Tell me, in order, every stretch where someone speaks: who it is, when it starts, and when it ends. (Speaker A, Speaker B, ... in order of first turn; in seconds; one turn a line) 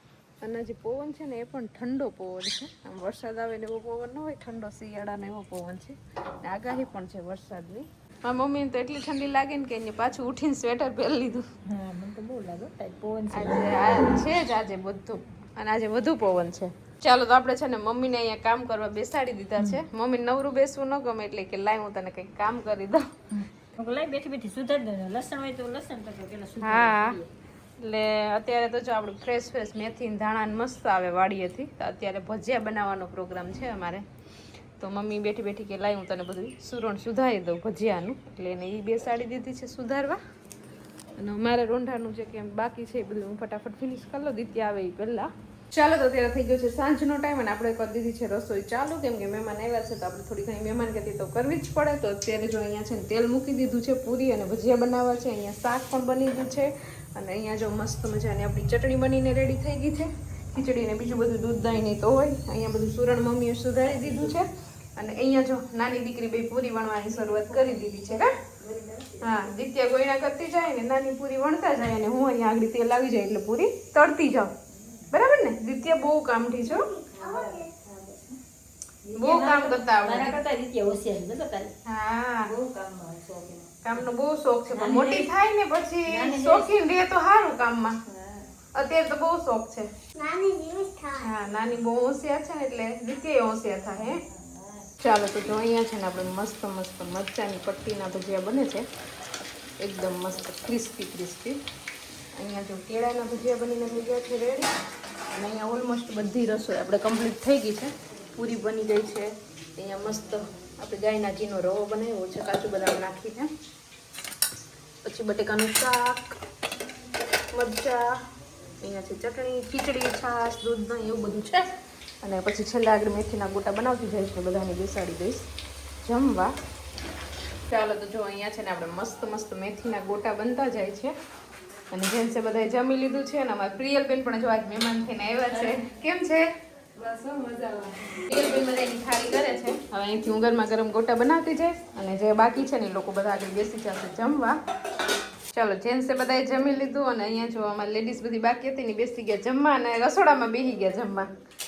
Speaker A: 0.4-11.4
Speaker B: 11.7-14.1
Speaker A: 13.3-23.1
Speaker B: 23.3-27.3
Speaker A: 26.6-27.2
Speaker A: 27.8-34.1
Speaker A: 34.8-40.2
Speaker A: 41.2-68.3
Speaker B: 67.2-69.5
Speaker A: 69.2-74.5
Speaker B: 74.7-75.1
Speaker A: 75.1-76.8
Speaker C: 76.7-77.7
Speaker B: 77.1-78.4
Speaker B: 79.0-81.7
Speaker A: 79.2-80.4
Speaker A: 81.9-82.5
Speaker B: 82.5-83.8
Speaker A: 83.8-88.0
Speaker B: 84.7-85.3
Speaker B: 86.1-86.7
Speaker B: 88.1-88.5
Speaker A: 88.8-89.9
Speaker C: 90.2-91.3
Speaker A: 91.2-94.2
Speaker B: 94.0-94.9
Speaker A: 95.0-98.9
Speaker A: 99.8-101.6
Speaker A: 102.4-104.7
Speaker A: 105.3-113.5
Speaker A: 115.0-116.4
Speaker A: 117.5-118.1
Speaker A: 118.8-125.5
Speaker A: 126.0-126.5
Speaker A: 127.7-131.1
Speaker A: 131.9-144.6
Speaker A: 145.5-151.3